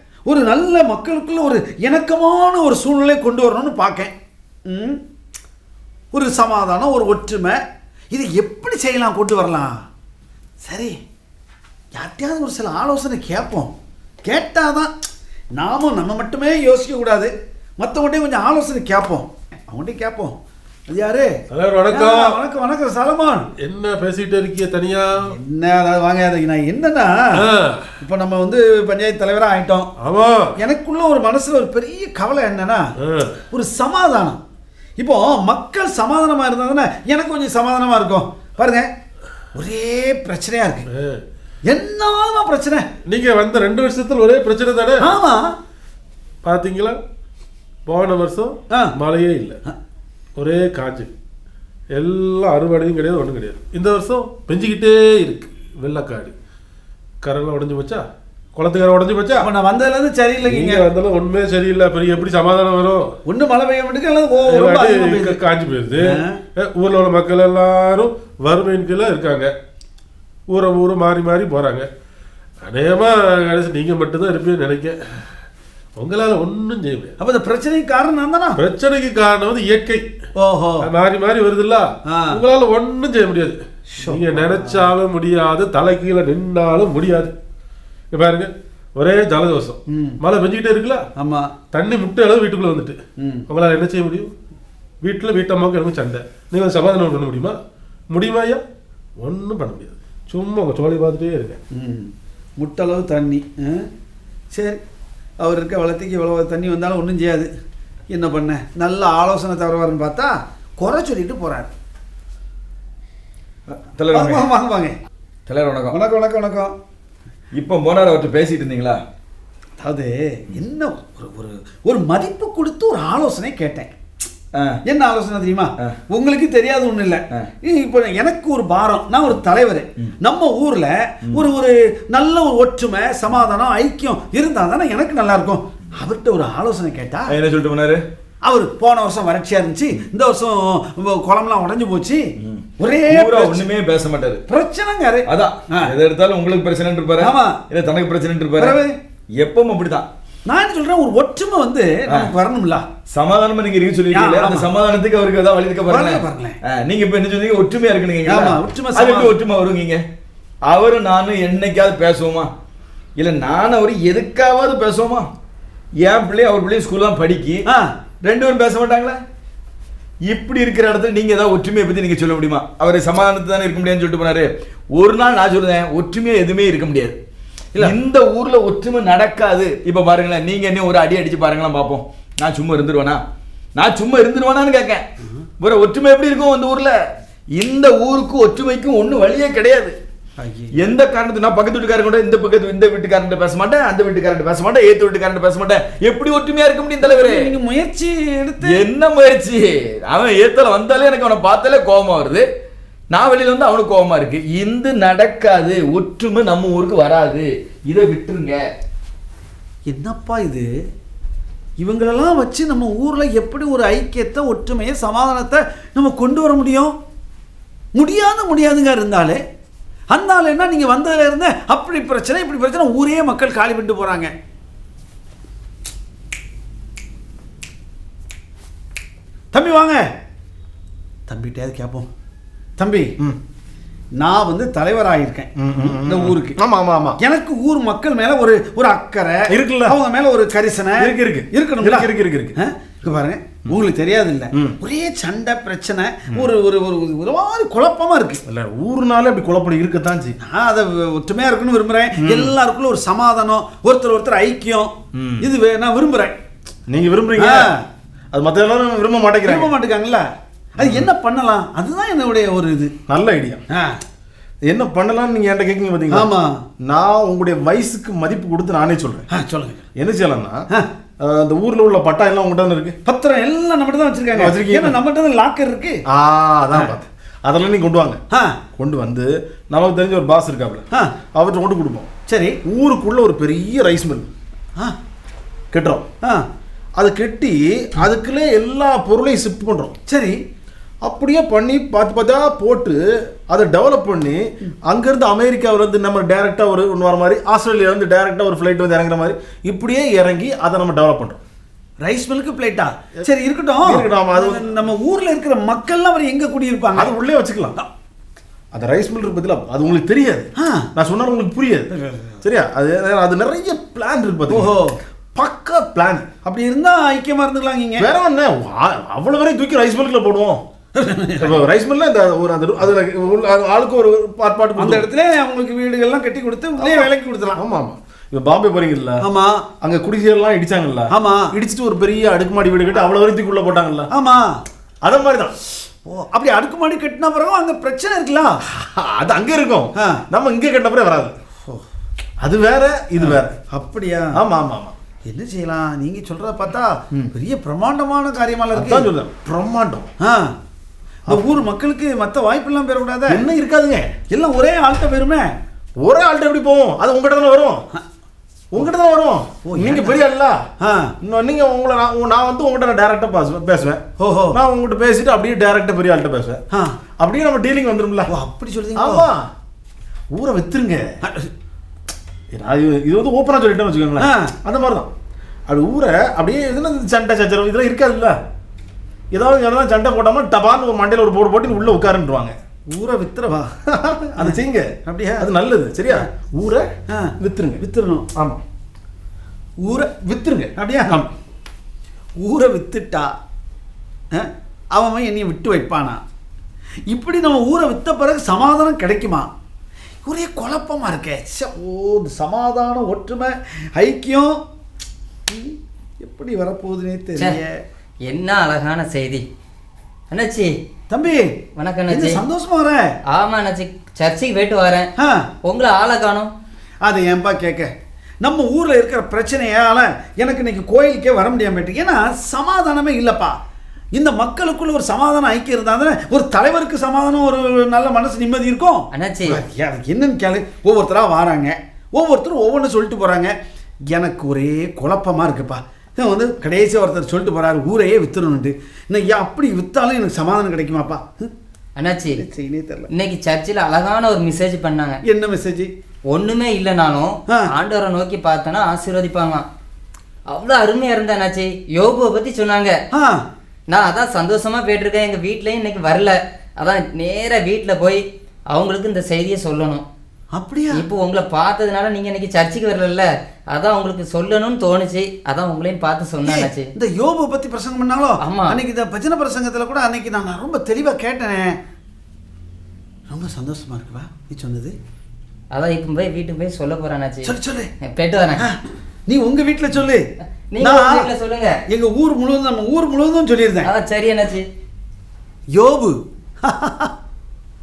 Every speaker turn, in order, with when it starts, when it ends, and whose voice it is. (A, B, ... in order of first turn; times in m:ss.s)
0:00.3-0:04.1 A
0:04.7-0:05.0 A
0:06.1-0:09.8 A
0:10.6-0:11.0 A
0:11.9-0:13.7 A
0:14.2-0:14.9 A
0:15.6-0:20.4 A
0:20.9-0:23.5 A
0:21.5-0:22.4 B
0:23.6-0:25.4 B
0:25.3-0:27.4 A
0:27.4-0:27.9 B
0:28.0-0:29.9 A
0:30.0-0:30.6 B
0:30.6-0:32.9 A
0:33.0-0:33.4 B
0:33.5-0:34.4 A
0:35.0-0:38.9 A
0:39.5-0:40.9 A
0:40.9-0:41.2 B
0:41.7-0:42.9 A
0:43.1-0:45.1 B
0:45.0-0:45.6 A
0:46.4-0:47.0 B
0:47.9-0:49.6 B
0:50.4-0:51.1 B
0:51.9-0:56.4 B
0:57.2-0:58.0 B
0:58.6-0:59.5 B
0:59.4-1:00.9 A
1:00.4-1:03.1 B
1:03.3-1:05.4 A
1:04.5-1:09.5 B
1:06.0-1:06.4 A
1:10.5-1:11.9 B
1:12.6-1:15.2 B
1:16.0-1:17.1 B
1:17.2-1:18.6 A
1:18.6-1:20.0 B
1:20.4-1:20.9 A
1:20.8-1:27.3 B
1:22.1-1:22.4 A
1:23.9-1:24.9 A
1:28.1-1:31.0 B
1:29.9-1:30.2 A
1:31.2-1:31.5 A
1:31.7-1:33.0 B
1:33.2-1:33.5 A
1:33.5-1:34.3 B
1:35.0-1:37.6 B
1:38.1-1:38.6 B
1:39.2-1:41.6 B
1:41.7-1:43.9 A
1:44.5-1:44.8 A
1:45.4-1:47.5 A
1:48.1-1:51.7 A
1:53.7-1:54.5 C
1:54.1-1:55.0 A
1:55.5-1:56.0 C
1:55.9-1:56.8 A
1:57.5-1:59.0 C
1:59.8-2:03.9 A
2:04.9-2:17.3 A
2:17.3-2:18.0 C
2:18.4-2:22.2 A
2:22.4-2:24.4 C
2:22.8-2:23.6 A
2:24.5-2:25.9 A
2:25.3-2:28.8 C
2:27.2-2:27.6 A
2:28.6-2:29.0 A
2:29.4-2:30.1 C
2:30.5-2:32.9 A
2:33.1-2:40.0 C
2:34.1-2:34.7 A
2:35.9-2:36.6 A
2:38.3-2:39.3 A
2:40.7-2:42.5 C
2:43.2-2:45.3 C
2:46.0-2:47.6 C
2:47.7-2:47.9 A
2:48.2-2:49.2 C
2:50.3-2:57.2 C
2:57.8-3:03.2 C
3:03.8-3:05.0 C
3:05.6-3:07.0 C
3:07.6-3:10.0 C
3:10.4-3:10.7 A
3:10.8-3:17.5 C
3:17.0-3:18.8 A
3:18.6-3:22.4 C
3:23.1-3:28.6 C
3:29.9-3:30.7 A
3:31.8-3:37.0 A
3:38.0-3:39.4 A
3:40.1-3:44.3 A
3:49.5-3:50.1 A
3:51.3-3:52.1 A
3:52.8-3:53.1 A
3:54.2-3:56.6 A
3:55.6-3:57.2 D
3:57.2-4:08.4 A
3:59.5-4:00.0 D
4:01.0-4:02.6 D
4:08.5-4:10.4 D
4:10.4-4:16.4 A
4:12.2-4:12.5 D
4:15.1-4:15.5 D
4:16.9-4:17.7 D
4:17.4-4:17.8 A
4:18.3-4:19.7 D
4:19.4-4:22.9 A
4:20.8-4:21.1 D
4:23.1-4:23.6 D
4:23.7-4:24.0 A
4:24.7-4:26.3 D
4:26.1-4:26.6 A
4:26.8-4:29.3 D
4:29.3-4:29.9 A
4:30.0-4:30.7 D
4:31.2-4:33.0 D
4:33.0-4:36.0 A
4:34.3-4:35.0 D
4:36.1-4:38.2 D
4:38.3-4:38.6 A
4:38.8-4:42.1 D
4:42.3-4:42.6 A
4:42.6-4:44.3 D
4:45.7-4:46.1 D
4:46.2-4:46.5 A
4:47.0-4:50.0 D
4:50.1-4:50.4 A
4:51.0-4:53.0 D
4:53.5-5:01.4 D
5:02.0-5:07.1 A
5:03.8-5:04.8 D
5:07.0-5:07.8 D
5:08.7-5:11.9 D
5:10.6-5:10.9 A
5:11.9-5:12.4 A
5:12.4-5:14.7 D
5:14.5-5:15.0 A
5:15.4-5:16.3 D
5:16.4-5:18.1 A
5:18.0-5:20.6 D
5:21.0-5:21.6 A
5:21.4-5:25.1 D
5:24.8-5:27.1 A
5:26.8-5:29.2 D
5:29.2-5:29.7 A
5:29.8-5:34.1 D
5:31.1-5:31.5 A
5:34.1-5:34.6 A
5:35.0-5:35.5 D
5:36.0-5:38.6 A
5:38.7-5:41.4 D
5:40.0-5:40.2 A
5:42.4-5:43.6 D
5:43.2-5:44.4 A
5:44.3-5:45.0 D
5:45.3-5:49.1 A
5:48.7-5:50.1 D
5:50.2-5:50.6 A
5:51.3-5:53.4 A
5:51.3-5:51.6 D
5:53.3-5:54.1 D
5:54.3-5:55.6 A
5:56.0-5:57.8 D
5:58.7-6:00.6 D
5:59.7-6:00.2 A
6:00.8-6:01.1 A
6:01.2-6:06.6 D
6:04.2-6:04.6 A
6:06.7-6:07.0 A
6:07.2-6:08.3 D
6:08.3-6:09.3 A
6:09.0-6:09.5 D
6:10.3-6:11.2 D
6:11.2-6:11.5 A
6:12.5-6:15.1 D
6:14.2-6:14.5 A
6:15.7-6:18.4 D
6:19.3-6:22.6 D
6:22.9-6:23.8 A
6:23.9-6:26.9 D
6:24.4-6:25.5 A
6:27.1-6:28.3 A
6:27.4-6:27.8 D
6:28.4-6:28.6 D
6:29.9-6:30.7 D
6:30.8-6:31.3 A
6:32.4-6:33.3 A
6:34.3-6:36.2 A
6:37.1-6:39.5 A
6:40.2-6:44.6 A
6:45.5-6:47.8 A
6:48.3-6:49.4 E
6:50.3-6:50.7 E
6:51.1-6:53.2 A
6:51.8-6:52.4 E
6:53.3-6:55.1 E
6:55.2-6:55.5 A
6:55.6-6:56.5 E
6:57.0-7:03.6 A
7:04.1-7:13.6 A
7:09.1-7:09.6 E
7:14.1-7:21.5 A
7:22.0-7:22.4 E
7:22.4-7:23.1 A
7:23.1-7:25.2 E
7:25.2-7:25.9 A
7:26.3-7:29.7 E
7:30.5-7:33.0 E
7:33.1-7:33.4 A
7:33.9-7:40.0 E
7:40.5-7:41.0 A
7:40.9-7:46.9 E
7:46.5-7:51.8 A
7:48.4-7:48.8 E
7:53.3-7:55.0 A
7:55.7-7:58.7 E
7:57.4-7:57.9 A
7:58.6-8:00.3 A
8:00.7-8:01.8 E
8:00.8-8:01.3 A
8:01.9-8:03.9 A
8:03.8-8:04.6 E
8:05.7-8:07.1 A